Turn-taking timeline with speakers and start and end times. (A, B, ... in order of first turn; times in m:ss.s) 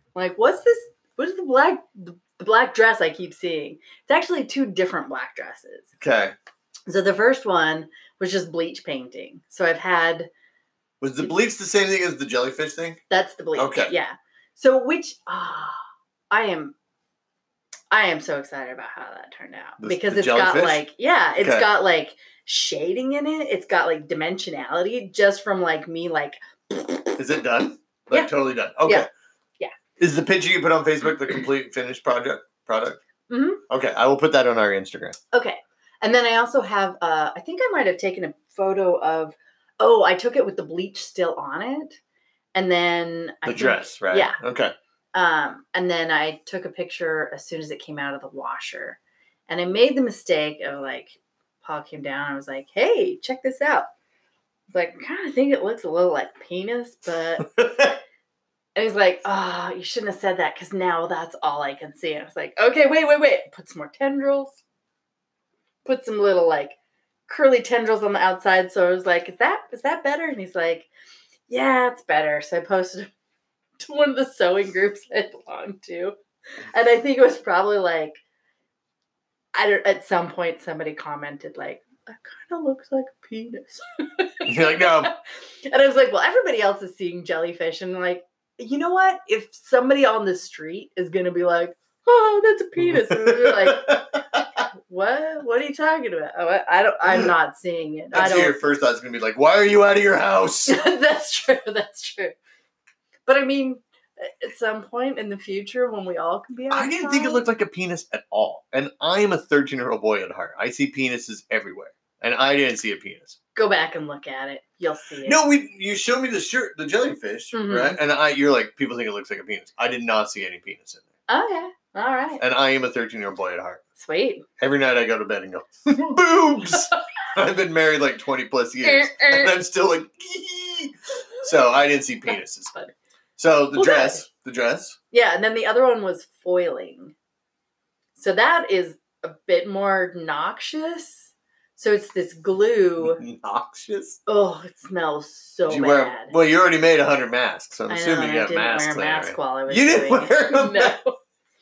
0:00.1-0:05.9 A
0:06.0-0:06.3 B
0:06.9-0:10.3 A
0:11.0-0:13.0 B
0:13.1-0:16.7 A
0:13.6-0:13.9 B
0:17.9-0:27.2 A
0:19.8-0:20.8 B
0:21.4-0:21.7 B
0:27.2-0:29.1 B
0:30.0-0:33.0 B
0:33.3-0:33.6 A
0:33.7-0:35.2 B
0:35.3-0:42.0 A
0:42.5-0:44.4 A
0:43.4-0:44.7 B
0:45.1-0:49.0 A
0:49.5-0:53.9 A
0:54.7-0:57.5 A
0:57.5-0:57.9 B
0:58.8-1:04.6 A
1:05.8-1:06.8 A
1:07.3-1:10.9 A
1:11.5-1:13.1 A
1:13.8-1:16.1 A
1:16.7-1:18.2 A
1:19.5-1:34.0 A
1:24.4-1:25.1 B
1:32.8-1:34.4 B
1:34.8-1:38.5 A
1:37.0-1:37.3 B
1:38.1-1:40.8 B
1:40.7-1:42.4 A
1:43.2-1:47.4 A
1:46.7-1:53.4 B
1:53.5-1:55.4 A
1:55.2-2:01.1 B
1:57.5-1:58.0 A
2:01.3-2:02.4 A
2:02.4-2:03.8 B
2:04.0-2:04.4 A
2:04.6-2:12.7 B
2:08.8-2:09.5 A
2:13.4-2:15.0 B
2:13.7-2:14.2 A
2:15.1-2:17.1 A
2:18.2-2:23.2 A
2:23.0-2:24.2 B
2:24.2-2:26.3 A
2:25.7-2:31.0 B
2:27.9-2:31.2 A